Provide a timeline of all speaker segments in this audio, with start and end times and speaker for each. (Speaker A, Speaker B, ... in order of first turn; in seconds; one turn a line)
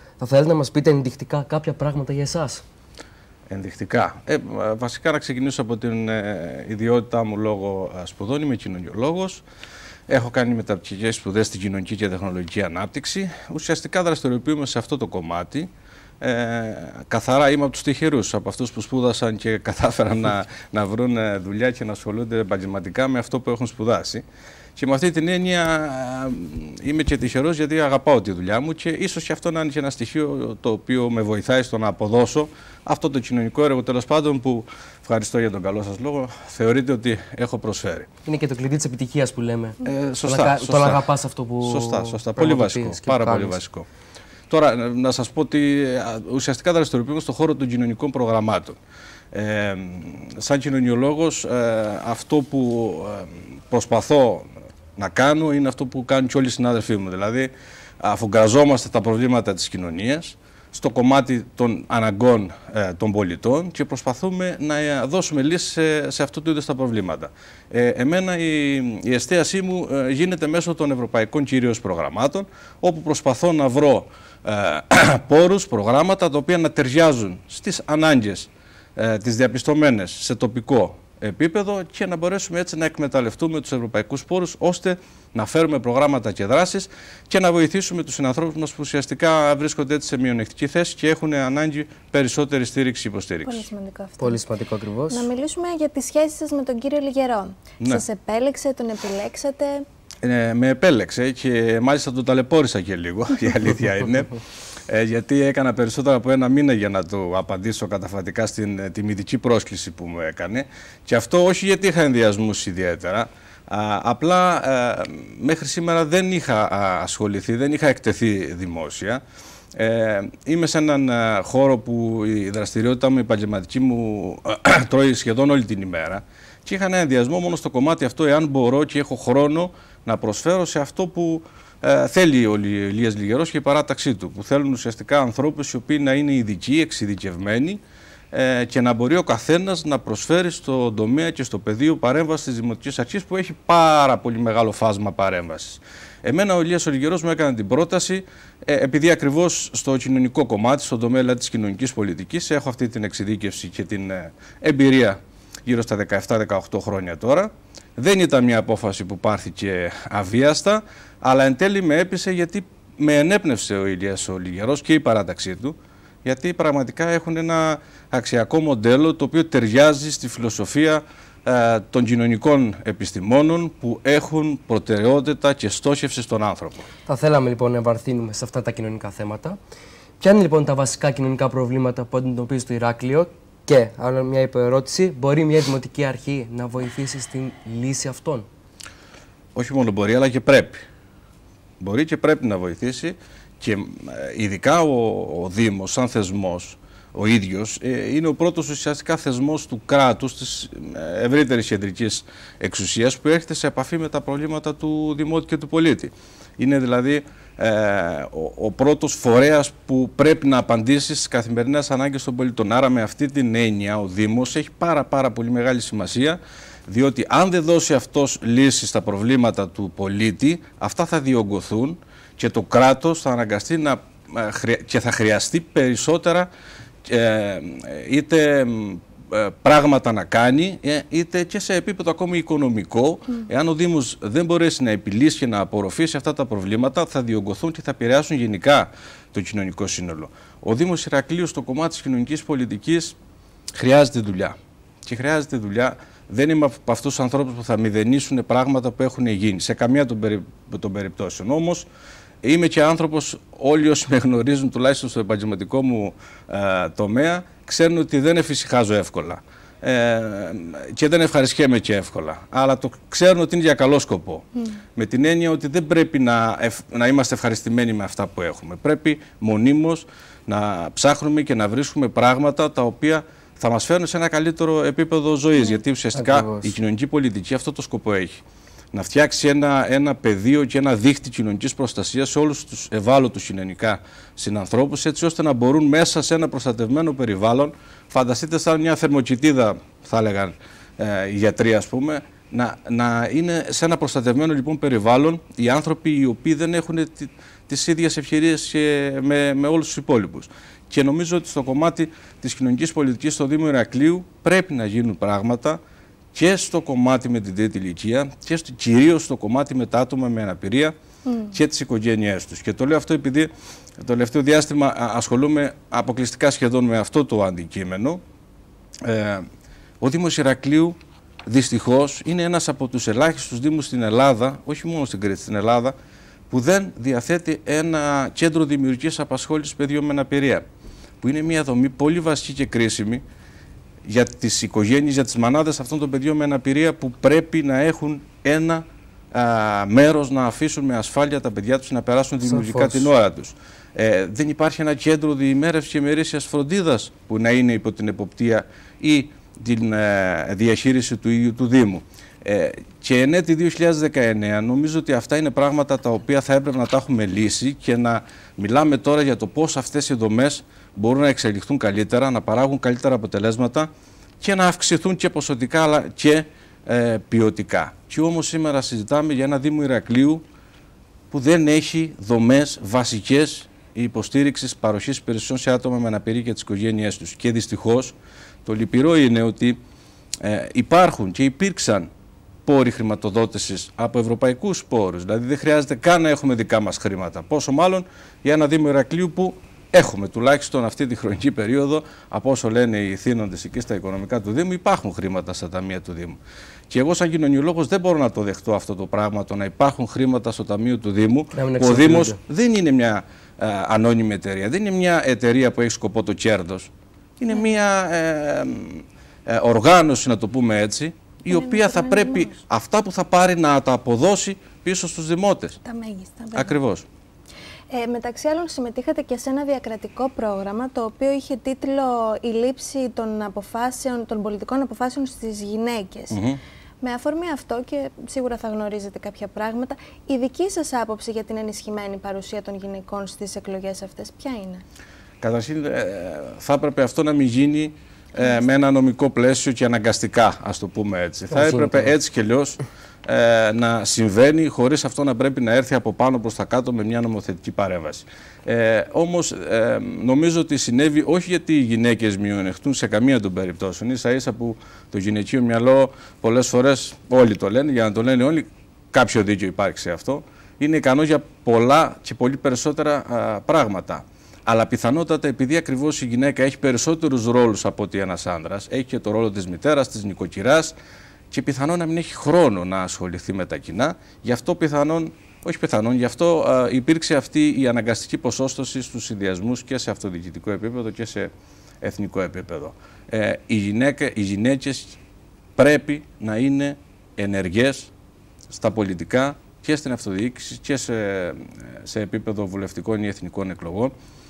Speaker A: 0.2-2.6
Speaker B: 3.5-9.4
Speaker B: 10.1-15.7
Speaker B: 16.2-24.2
Speaker B: 24.8-38.1
Speaker A: 38.2-43.6
Speaker B: 39.8-41.0
Speaker B: 41.6-43.9
Speaker B: 44.5-48.8
Speaker B: 49.3-93.7
Speaker C: 93.4-94.4
Speaker A: 94.2-95.3
Speaker C: 95.1-99.8
Speaker B: 100.2-104.4
Speaker B: 104.9-119.2
Speaker B: 119.7-176.9
Speaker A: 177.1-179.6
Speaker A: 180.2-188.5
Speaker B: 189.5-190.8
Speaker B: 191.8-226.5
Speaker B: 227.1-243.2
Speaker B: 243.7-251.9
Speaker B: 252.4-264.4
Speaker B: 264.9-278.4
Speaker A: 276.1-276.8
Speaker B: 278.9-305.8
Speaker B: 306.3-310.9
Speaker C: 311.2-311.6
Speaker B: 311.5-318.2
Speaker B: 319.0-319.4
Speaker B: 320.0-325.9
Speaker B: 326.5-330.6
Speaker B: 331.2-333.2
Speaker B: 334.1-363.9
Speaker A: 342.4-343.1
Speaker B: 364.4-370.4
Speaker B: 371.3-379.8
Speaker B: 380.4-382.1
Speaker B: 382.6-415.8
Speaker A: 401.5-402.4
Speaker C: 411.5-412.5
Speaker C: 415.8-416.8
Speaker B: 416.5-417.1
Speaker C: 417.9-426.4
Speaker B: 426.3-426.6
Speaker C: 427.0-434.8
Speaker B: 435.4-470.9
Speaker A: 441.5-442.1
Speaker B: 471.5-481.5
Speaker B: 482.0-485.2
Speaker B: 485.8-488.1
Speaker B: 488.7-494.1